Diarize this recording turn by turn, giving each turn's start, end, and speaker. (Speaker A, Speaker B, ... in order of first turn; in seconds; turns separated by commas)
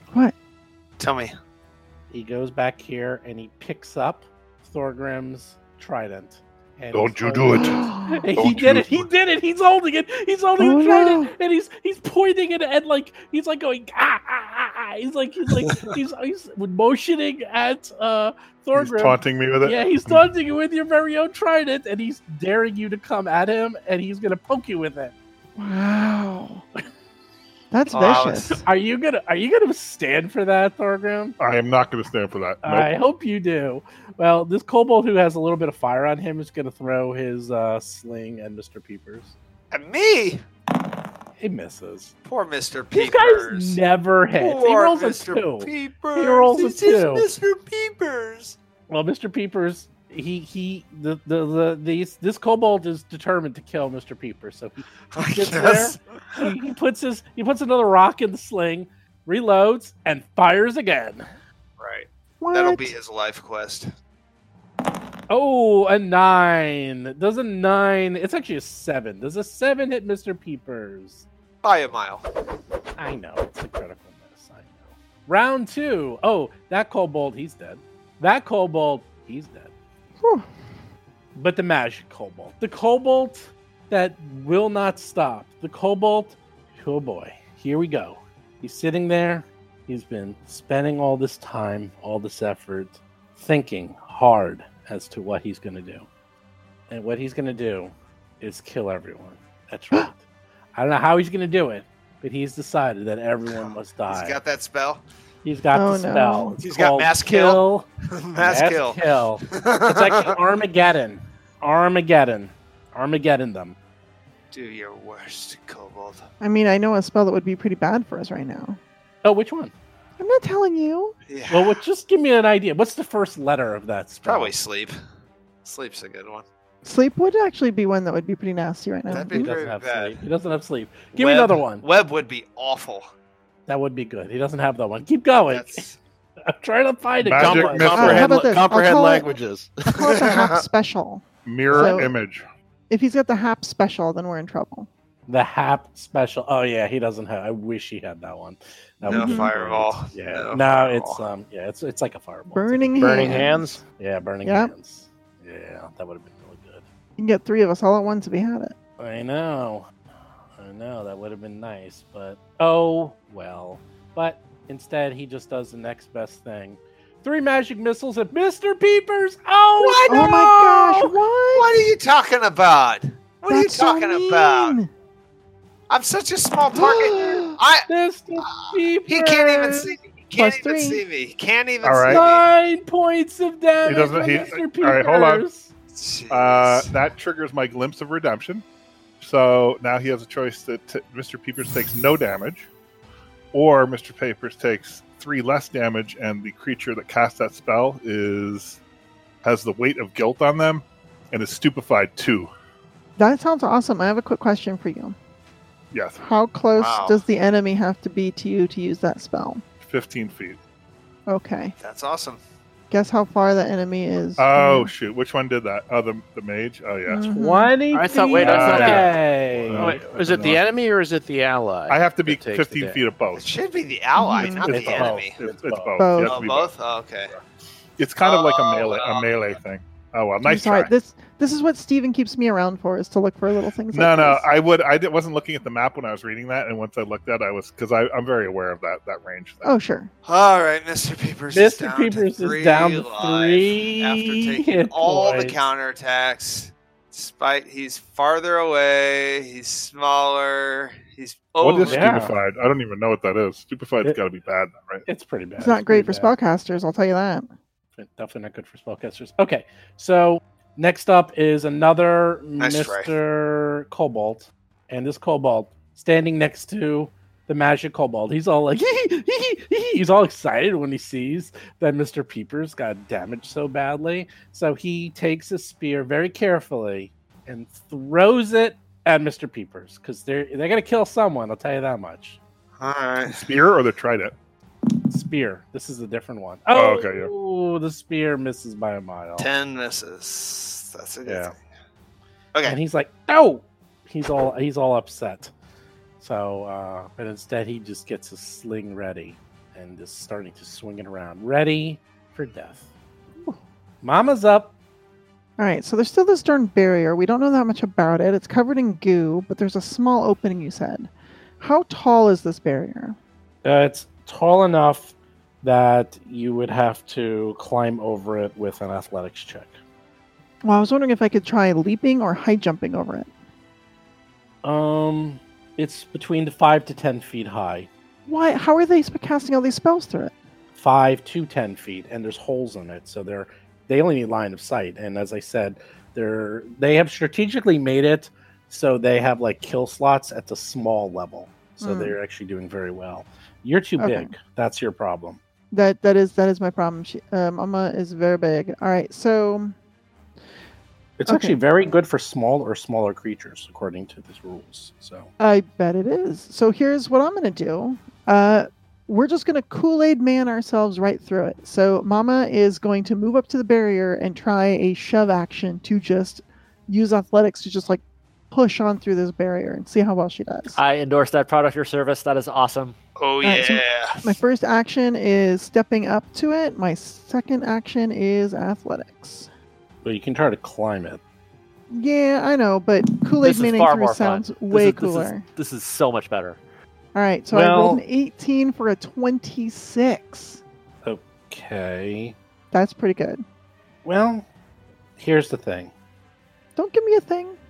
Speaker A: 1.0-1.3, Speaker B: 2.1-25.1, Speaker C: 6.9-7.8, Speaker D: 7.5-8.2, Speaker C: 8.3-9.1, Speaker D: 10.6-11.3, Speaker C: 18.7-20.3, Speaker D: 25.6-26.6, Speaker D: 27.7-28.6, Speaker A: 27.9-28.6, Speaker B: 28.6-31.4, Speaker C: 31.4-32.9, Speaker B: 32.6-39.3, Speaker A: 39.7-40.4, Speaker B: 41.4-42.1, Speaker A: 42.2-43.8, Speaker B: 42.9-47.3, Speaker A: 44.4-48.5, Speaker B: 48.9-61.3, Speaker A: 55.1-56.5, Speaker A: 61.8-63.9, Speaker D: 62.4-62.9, Speaker B: 65.3-71.2, Speaker A: 71.6-72.2, Speaker B: 73.0-79.7, Speaker B: 81.3-96.1, Speaker B: 96.9-100.2, Speaker B: 100.7-104.4, Speaker A: 103.5-105.0, Speaker B: 105.4-107.9, Speaker D: 105.7-106.6, Speaker A: 106.6-110.3, Speaker B: 108.4-113.8, Speaker A: 114.5-116.2, Speaker D: 116.4-118.8, Speaker B: 119.2-119.7, Speaker D: 120.2-121.1, Speaker A: 121.3-121.8, Speaker B: 121.5-124.5, Speaker A: 124.2-124.9, Speaker A: 125.6-126.4, Speaker D: 126.8-129.6, Speaker A: 129.1-130.2, Speaker B: 129.3-131.8, Speaker A: 131.1-133.1, Speaker B: 133.7-135.8, Speaker A: 135.5-136.0, Speaker B: 136.4-138.2, Speaker C: 137.2-138.4, Speaker E: 137.4-139.8, Speaker D: 137.9-139.3, Speaker D: 139.9-142.1, Speaker A: 140.0-140.5, Speaker C: 141.4-142.4, Speaker B: 141.7-142.0, Speaker D: 142.9-144.9, Speaker B: 145.3-156.8, Speaker A: 149.0-151.2, Speaker D: 149.1-149.5, Speaker D: 152.5-153.6, Speaker E: 153.0-153.8, Speaker D: 154.4-154.7, Speaker D: 157.2-158.7, Speaker B: 159.0-159.9, Speaker B: 160.6-171.2, Speaker A: 169.8-170.4, Speaker D: 170.1-171.7, Speaker A: 171.5-174.8, Speaker D: 173.5-174.9, Speaker A: 175.9-177.9, Speaker D: 176.7-177.6, Speaker B: 177.9-179.9, Speaker A: 178.4-182.4, Speaker D: 180.4-181.0, Speaker C: 181.8-182.2, Speaker B: 182.1-185.7, Speaker C: 183.8-185.4, Speaker A: 185.9-186.9, Speaker C: 186.3-188.6, Speaker C: 189.2-192.7, Speaker C: 193.5-198.8, Speaker C: 199.4-202.5, Speaker D: 203.2-205.2, Speaker C: 205.9-206.2, Speaker D: 206.2-209.6, Speaker A: 206.8-207.2, Speaker C: 209.8-210.6, Speaker D: 211.3-211.7, Speaker A: 211.8-212.4, Speaker D: 212.9-214.9, Speaker C: 214.4-217.2, Speaker D: 217.1-217.8, Speaker B: 217.3-220.5, Speaker E: 217.9-219.2, Speaker C: 218.3-220.6, Speaker E: 219.7-223.0, Speaker C: 221.9-223.5, Speaker A: 223.3-225.4, Speaker D: 224.2-224.7, Speaker C: 224.4-226.7, Speaker B: 224.7-226.0, Speaker D: 226.0-226.3, Speaker A: 226.2-227.3, Speaker C: 228.0-230.9, Speaker A: 228.2-229.3, Speaker D: 230.4-234.4, Speaker C: 233.9-239.7, Speaker D: 239.6-240.1, Speaker A: 240.2-252.2, Speaker B: 241.5-245.6, Speaker C: 251.6-255.1, Speaker B: 251.8-252.4, Speaker B: 255.1-256.3, Speaker D: 255.6-257.5, Speaker B: 258.0-282.4, Speaker A: 262.6-263.1, Speaker A: 282.8-283.4, Speaker C: 283.2-284.3, Speaker B: 285.1-289.5, Speaker C: 286.7-287.3, Speaker A: 289.4-291.6, Speaker B: 291.2-291.5, Speaker B: 292.6-295.5, Speaker B: 296.2-302.9, Speaker B: 304.0-304.7, Speaker D: 305.6-313.2, Speaker B: 313.6-319.8, Speaker D: 320.6-323.3, Speaker B: 324.6-327.9, Speaker D: 328.2-330.3, Speaker B: 330.7-345.4, Speaker D: 341.8-342.1, Speaker D: 344.0-344.3, Speaker D: 345.7-349.7, Speaker B: 351.2-355.3, Speaker D: 351.3-351.6, Speaker D: 355.4-370.8, Speaker F: 370.8-372.9, Speaker A: 373.2-374.4, Speaker D: 373.4-379.5, Speaker B: 380.0-381.2, Speaker D: 381.9-385.4, Speaker F: 383.4-386.6, Speaker D: 387.1-390.6, Speaker B: 387.5-388.0, Speaker B: 391.0-392.4, Speaker D: 392.7-393.4, Speaker B: 394.0-394.5, Speaker B: 395.2-395.9, Speaker D: 396.8-397.6